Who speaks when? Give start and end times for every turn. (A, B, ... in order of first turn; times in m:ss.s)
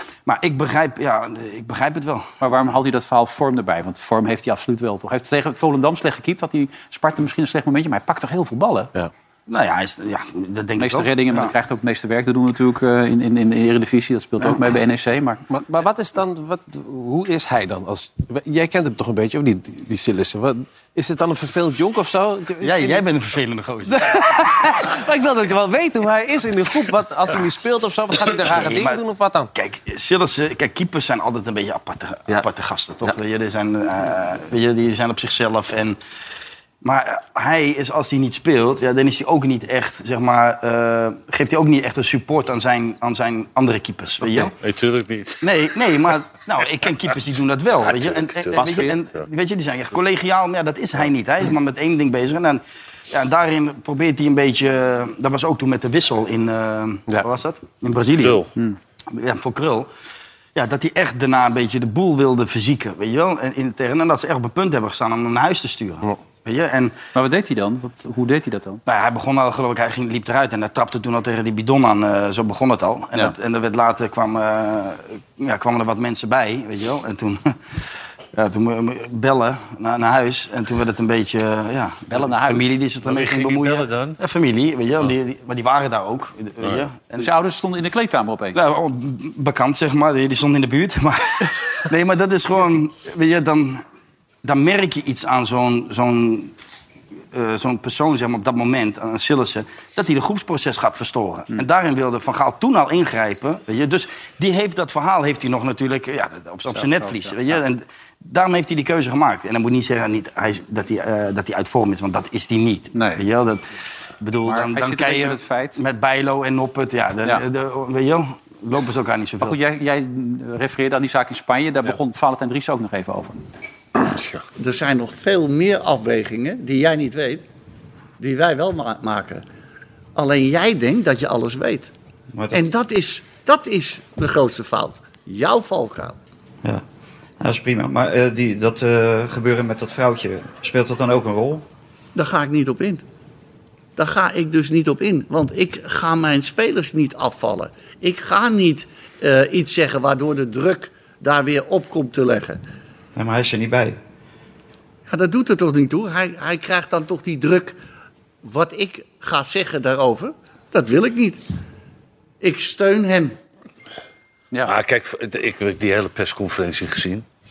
0:00.2-0:02.3 A
0:02.4-0:08.9 B
0:09.5-0:11.5 A
0:10.8-0:15.4 B
0:15.5-0:23.0 C
0:22.6-0:24.6 A
0:23.9-0:29.5 C
0:28.4-0:29.0 A
0:29.5-0:36.0 A
0:36.8-0:44.5 A
0:44.4-0:45.5 D
0:45.4-0:58.4 A
0:47.8-0:48.8 D
0:48.5-0:49.0 C
0:58.2-0:58.5 D
0:59.1-0:59.9 A
1:00.5-1:06.9 A
1:07.1-1:08.8 B
1:08.8-1:17.8 A
1:18.3-1:27.3 A
1:22.1-1:22.7 B
1:23.0-1:24.2 D
1:27.2-1:28.6 B
1:28.5-1:33.8 A
1:34.4-1:36.5 A
1:37.3-1:53.6 A
1:46.7-1:47.5 B
1:52.9-1:53.2 B
1:54.2-1:59.6 A
1:54.4-1:55.8 B
1:59.4-2:03.4 B
2:04.6-2:07.4 E
2:08.2-2:09.4 E
2:10.2-2:11.9 E
2:12.3-2:12.7 F
2:12.5-2:16.2 E
2:17.4-2:21.6 F
2:22.1-2:23.0 E
2:24.0-2:32.6 E
2:33.1-2:34.0 F
2:35.1-2:37.8 E
2:38.4-2:41.4 E
2:42.4-2:43.4 E
2:44.6-2:47.2 D